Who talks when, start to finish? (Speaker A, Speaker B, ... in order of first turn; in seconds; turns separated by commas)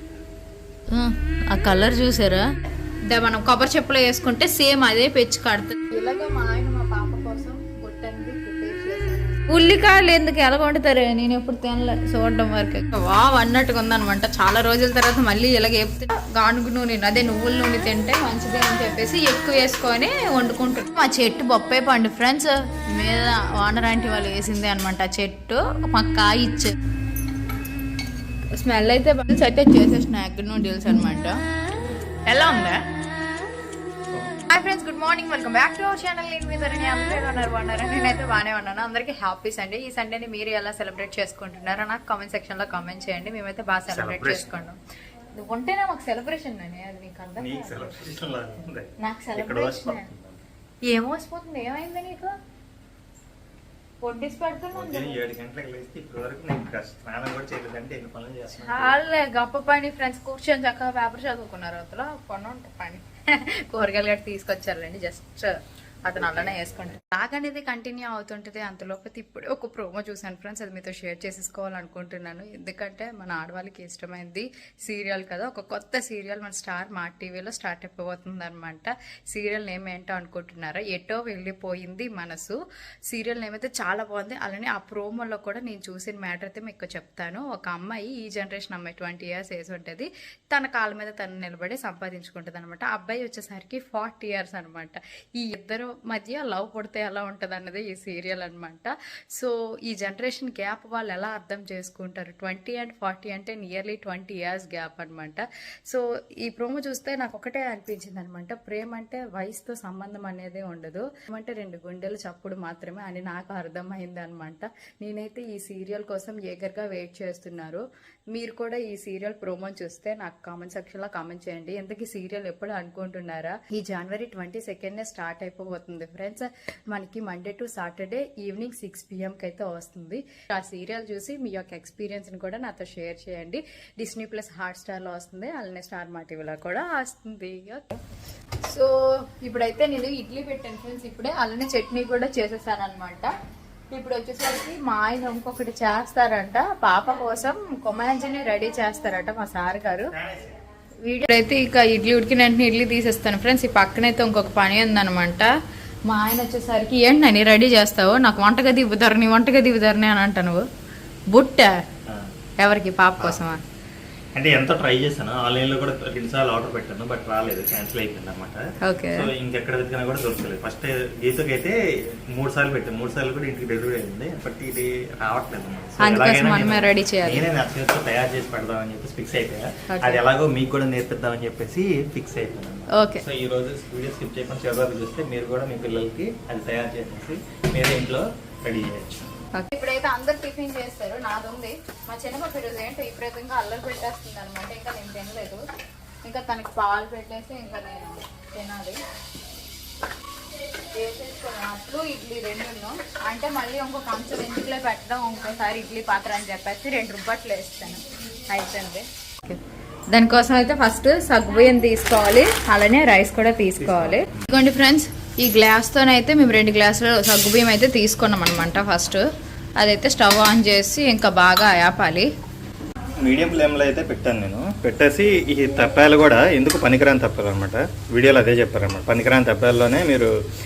Speaker A: 0.9-2.5, Speaker A: 3.1-26.7, Speaker A: 28.6-31.4, Speaker A: 32.3-32.8, Speaker A: 34.5-44.8, Speaker B: 43.9-44.6, Speaker A: 45.4-48.0, Speaker B: 47.4-50.5, Speaker A: 49.0-50.1, Speaker A: 50.9-52.3, Speaker A: 54.0-55.2, Speaker B: 54.7-59.0, Speaker A: 58.5-82.6, Speaker B: 66.1-67.0, Speaker A: 83.1-138.0, Speaker A: 138.6-143.3, Speaker A: 143.9-150.1, Speaker B: 150.1-150.6, Speaker A: 151.0-155.5, Speaker A: 156.1-160.7, Speaker A: 161.3-161.8, Speaker B: 162.1-162.3, Speaker A: 162.6-163.6, Speaker B: 164.3-189.3, Speaker A: 168.8-169.3, Speaker A: 176.0-177.4, Speaker A: 179.9-180.2, Speaker A: 182.9-183.2, Speaker A: 189.5-195.6, Speaker A: 196.2-199.0, Speaker A: 200.9-209.6, Speaker A: 210.1-219.2, Speaker B: 213.8-214.5, Speaker A: 219.8-222.3, Speaker B: 223.2-230.3